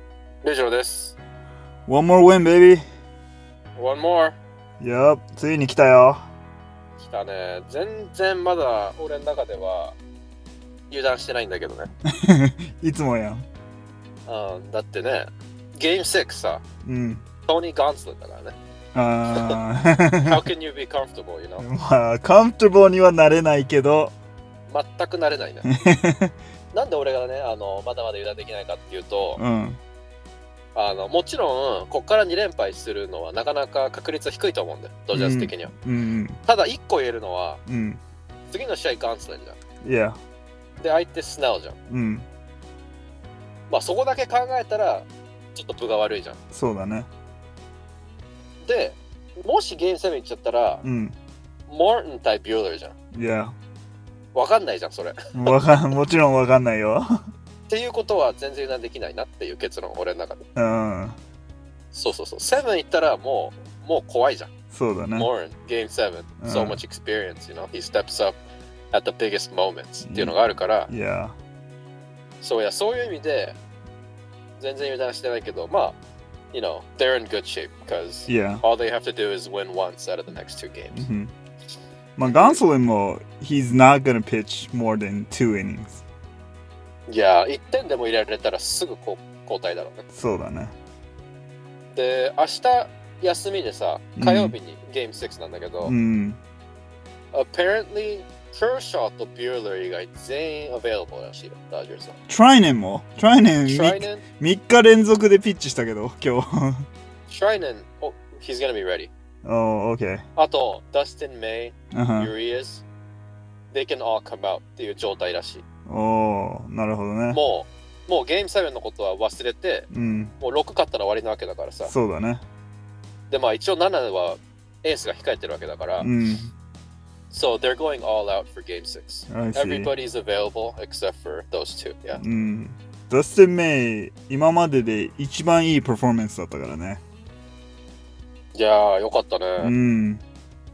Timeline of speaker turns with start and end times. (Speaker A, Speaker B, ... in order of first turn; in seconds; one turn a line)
Speaker A: 0.4-1.2
Speaker B: 1.9-2.8
Speaker A: 3.8-4.4
Speaker B: 4.8-6.3
Speaker A: 7.0-10.0
Speaker A: 10.9-11.9
Speaker B: 12.2-13.4
Speaker A: 14.3-16.6
Speaker B: 16.9-17.2
Speaker A: 17.5-18.6
Speaker B: 18.9-20.4
Speaker A: 19.3-19.6
Speaker A: 20.3-21.6
Speaker B: 21.6-24.1
Speaker A: 24.7-25.7
Speaker B: 25.7-26.3
Speaker A: 26.7-29.4
Speaker B: 29.4-29.8
Speaker A: 30.8-35.7
Speaker B: 35.1-36.4
Speaker A: 36.5-37.6
Speaker B: 37.7-38.0
Speaker A: 38.5-39.6
Speaker B: 39.8-40.2
Speaker A: 40.8-41.8
Speaker B: 41.9-42.3
Speaker A: 43.7-46.4
Speaker B: 46.5-47.1
Speaker A: 48.6-50.8
Speaker B: 50.8-51.2
Speaker A: 51.7-52.9
Speaker B: 53.1-53.5
Speaker A: 54.3-55.6
Speaker B: 55.4-57.1
Speaker A: 57.7-60.5
Speaker B: 60.6-61.2
Speaker A: 61.9-64.5
Speaker B: 64.7-65.3
Speaker A: 65.1-68.4
Speaker B: 66.4-66.8
Speaker A: 68.9-70.9
Speaker B: 70.0-70.4
Speaker B: 70.9-71.3
Speaker A: 72.4-73.6
Speaker A: 74.6-76.0
Speaker A: 76.5-81.1
Speaker B: 78.3-78.6
Speaker B: 80.9-81.3
Speaker B: 82.2-86.0
Speaker A: 82.2-82.6
Speaker A: 87.1-90.0
Speaker B: 90.1-90.7
Speaker A: 91.9-96.0
Speaker B: 94.2-94.5
Speaker B: 95.8-96.4
Speaker A: 97.3-102.2
Speaker B: 102.3-106.9
Speaker A: 103.7-104.2
Speaker A: 107.3-109.1
Speaker B: 109.5-110.2
Speaker A: 110.4-112.8
Speaker B: 111.9-112.3
Speaker A: 113.7-115.6
Speaker B: 115.9-117.4
Speaker A: 117.3-119.9
Speaker B: 119.9-120.3
Speaker A: 120.4-121.9
Speaker B: 121.9-122.4
Speaker A: 123.3-126.1
Speaker B: 126.0-126.5
Speaker A: 127.3-132.2
Speaker B: 129.3-129.9
Speaker B: 132.2-137.0
Speaker A: 138.5-139.7
Speaker B: 139.6-140.2